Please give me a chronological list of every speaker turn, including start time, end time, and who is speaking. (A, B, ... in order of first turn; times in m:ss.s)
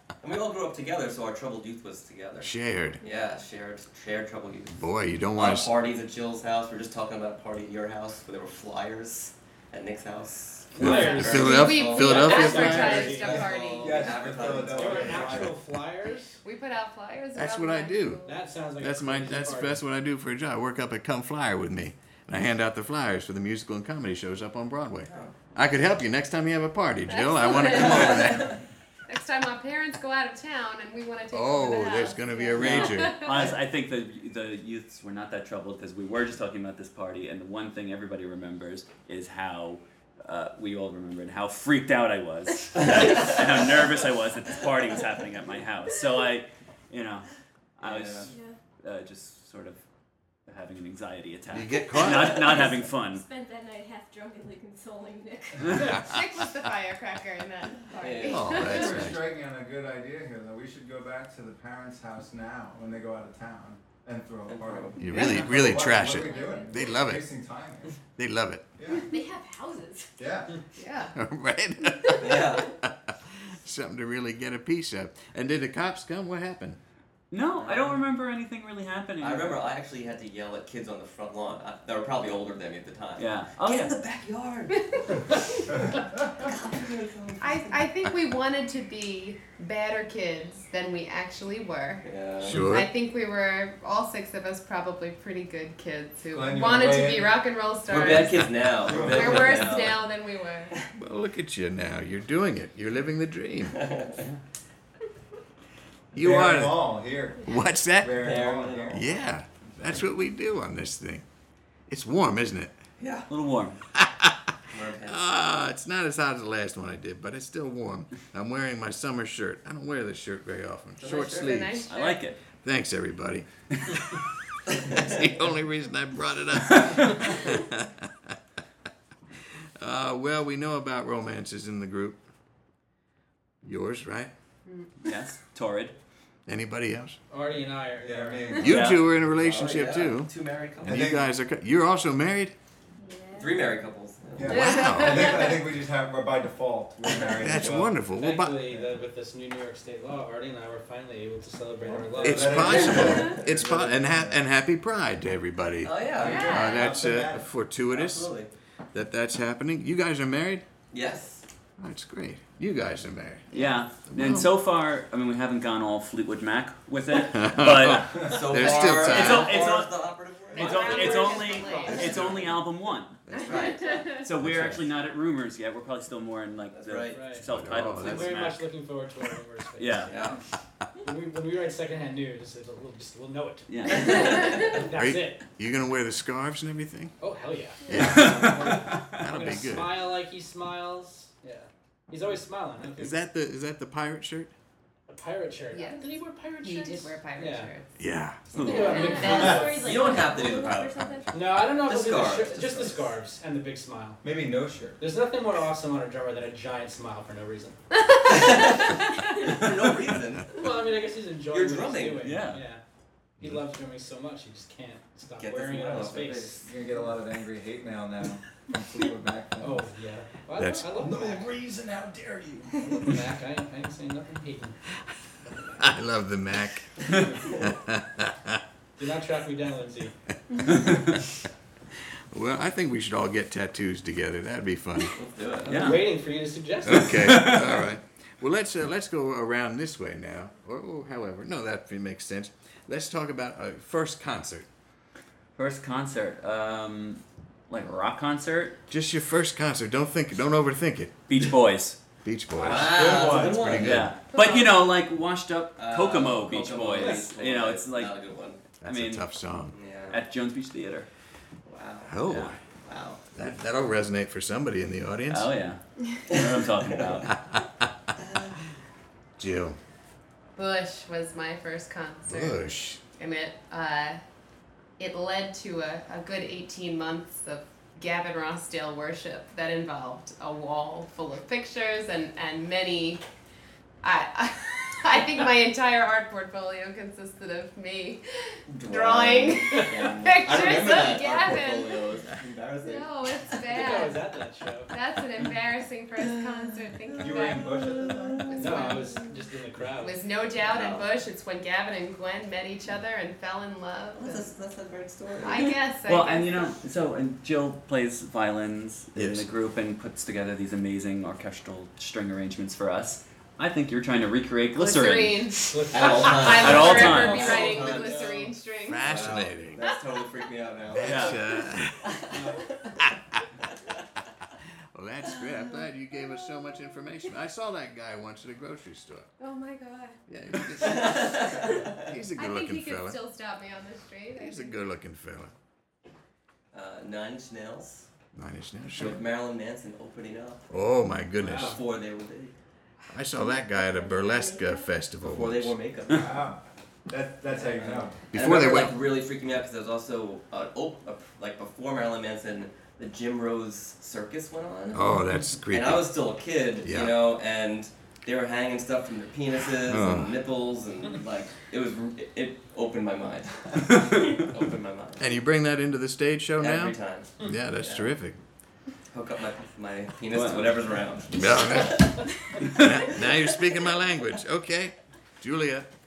0:00.2-0:04.8 A
0:02.4-0:03.0 B
0:04.8-0:05.7 B
0:05.3-0:15.5 A
0:10.7-0:13.4 C
0:10.8-0:13.1 B
0:11.3-0:14.1 D
0:12.8-0:15.6 E
0:14.6-0:16.4 C
0:16.4-0:18.4 D
0:17.3-0:18.2 B
0:18.2-0:19.8 C
0:18.8-0:28.6 B
0:25.0-0:25.4 A
0:27.1-0:28.5 D
0:27.7-0:28.1 A
0:29.1-0:33.5 D
0:31.3-0:33.4 B
0:32.5-0:49.8 F
0:47.8-0:48.3 A
0:48.3-0:48.6 G
0:50.4-0:53.2 F
0:51.5-0:52.7 B
0:52.1-0:55.9 G
0:55.7-0:59.1 D
0:55.7-0:56.2 B
0:58.0-0:58.6 A
0:58.2-0:59.2 B
0:58.5-1:08.0 E
1:04.5-1:05.5 A
1:05.0-1:07.2 B
1:05.9-1:06.9 G
1:08.2-1:08.6 B
1:08.8-1:09.1 E
1:08.9-1:10.2 G
1:10.2-1:10.6 E
1:10.8-1:11.1 D
1:11.1-1:16.8 B
1:12.2-1:12.7 A
1:17.3-1:19.6 F
1:17.5-1:18.0 A
1:19.2-1:27.9 A
1:23.2-1:24.0 F
1:27.4-1:40.7 D
1:32.0-1:32.7 A
1:32.4-1:32.9 B
1:36.3-1:37.4 E
1:37.9-1:40.1 A
1:38.8-1:39.8 E
1:40.9-1:43.8 B
1:43.7-1:44.2 A
1:46.1-1:46.8 B
1:46.1-1:49.0 E
1:47.4-1:48.4 B
1:48.2-1:49.0 A
1:48.9-1:51.2 B
1:51.9-1:52.7 B
1:53.0-1:53.3 A
1:53.3-1:53.8 F
1:53.9-2:01.9 B
1:54.7-1:55.2 A
2:01.0-2:01.7 A
2:01.2-2:02.2 D
2:01.8-2:02.4 F
2:02.6-2:04.2 B
2:04.8-2:05.2 A
2:04.8-2:08.4 B
2:09.8-2:12.2 B
2:13.6-2:14.3 B
2:15.0-2:15.9 F
2:16.5-2:17.2 B
2:17.3-2:18.6 C
2:18.0-2:18.9 E
2:18.6-2:20.3 B
2:18.6-2:19.0 F
2:19.4-2:21.0 A
2:20.8-2:21.3 E
2:20.8-2:22.5 B
2:23.0-2:23.6 G
2:23.4-2:24.6 A
2:24.4-2:28.0 E
2:24.5-2:25.4 B
2:24.5-2:25.6 D
2:27.3-2:28.7 B
2:28.1-2:32.9 C
2:31.8-2:33.3 A
2:32.0-2:34.4 E
2:32.2-2:38.3 B
2:35.8-2:36.7 A
2:36.2-2:37.4 E
2:36.2-2:36.8 D
2:37.9-2:38.5 A
2:38.9-2:40.6 B
2:40.9-2:41.4 A
2:41.8-2:44.5 B
2:43.5-2:50.0 F
2:47.3-2:49.6 B
2:48.2-2:52.6 A
2:50.5-2:53.2 F
2:50.6-2:52.3 D
2:50.8-2:51.3 C
2:53.3-2:54.2 A
2:53.4-2:54.1 D
2:54.0-2:58.7 F
2:54.4-2:54.8 B
2:56.7-2:57.4 A
2:57.1-3:00.2 C
2:57.4-2:58.4 B
2:59.8-3:00.1 F
3:00.1-3:00.4 A
3:01.0-3:05.4 C
3:03.7-3:04.8 F
3:04.9-3:07.1 B
3:07.2-3:13.2 C
3:07.9-3:10.0 B
3:07.9-3:09.2 F
3:12.9-3:14.5 B
3:15.1-3:17.7 C
3:15.7-3:17.9 D
3:18.0-3:18.4 B
3:18.5-3:19.0 F
3:18.6-3:19.8 C
3:18.6-3:21.4 G
3:18.7-3:19.5 D
3:19.2-3:19.7 E
3:19.7-3:23.1 A
3:21.3-3:24.2 C
3:24.2-3:25.0 E
3:25.0-3:27.8 C
3:28.3-3:28.9 A
3:29.4-3:30.6 A
3:30.5-3:32.8 C
3:31.5-3:32.3 A
3:32.2-3:32.6 F
3:33.4-3:36.6 C
3:35.4-3:36.6 A
3:36.6-3:39.9 E
3:39.6-3:41.5 C
3:40.5-3:40.9 B
3:40.9-3:43.2 E
3:42.8-3:44.8 C
3:45.4-3:45.8 C
3:45.8-3:48.6 B
3:49.0-3:50.1 C
3:52.3-3:55.2 B
3:55.1-3:56.0 A
3:55.7-3:56.1 F
3:55.7-3:57.4 C
3:56.8-4:04.7 B
3:57.0-3:57.8 F
4:05.6-4:08.8 F
4:08.9-4:11.4 B
4:11.3-4:12.0 F
4:12.2-4:14.2 B
4:12.6-4:14.7 A
4:12.6-4:13.8 E
4:13.7-4:18.1 F
4:15.8-4:18.6 A
4:18.8-4:19.8 B
4:18.8-4:19.2 F
4:19.7-4:20.2 A
4:20.1-4:21.1 F
4:21.7-4:22.2 A
4:22.0-4:22.6 B
4:22.3-4:22.6 F
4:22.8-4:23.2 A
4:23.3-4:25.5 B
4:25.3-4:27.4 F
4:26.3-4:27.2 A
4:27.3-4:27.9 B
4:28.2-4:28.6 A
4:29.4-4:29.8 B
4:30.6-4:32.6 D
4:32.3-4:33.0 B
4:33.2-4:34.2 D
4:35.0-4:43.2 D
4:44.0-4:52.1 D
4:48.7-4:53.1 A
4:52.8-4:54.2 D
4:53.6-4:54.9 C
4:54.9-4:59.2 D
4:57.2-4:58.9 E
4:58.6-5:00.2 C
5:00.0-5:04.5 D
5:00.6-5:01.1 A
5:04.2-5:05.8 A
5:05.4-5:06.7 D
5:06.0-5:17.6 F
5:09.2-5:09.5 B
5:14.8-5:19.1 D
5:15.7-5:18.6 C
5:15.9-5:18.3 A
5:18.8-5:19.8 B
5:19.0-5:22.3 A
5:20.9-5:22.2 B
5:21.0-5:21.4 F
5:22.3-5:22.7 C
5:23.0-5:23.4 B
5:24.9-5:29.3 B
5:29.4-5:30.2 D
5:30.3-5:33.2 B
5:30.8-5:32.1 A
5:30.8-5:31.8 D
5:32.3-5:34.8 D
5:34.3-5:35.5 B
5:36.7-5:38.1 A
5:38.3-5:39.2 B
5:38.9-5:40.6 A
5:40.7-5:41.8 B
5:41.4-5:41.8 C
5:41.5-5:42.5 A
5:43.1-5:45.7 B
5:43.4-5:44.9 G
5:45.2-5:46.4 A
5:46.1-5:48.3 E
5:47.5-5:55.0 A
5:48.3-5:49.0 B
5:54.9-5:56.0 B
5:55.7-6:05.3 A
5:56.8-5:57.2 B
5:59.8-6:00.4 B
6:05.2-6:08.4 B
6:06.6-6:08.1 A
6:09.1-6:12.2 A
6:10.3-6:10.8 F
6:11.3-6:15.9 B
6:12.6-6:12.9 F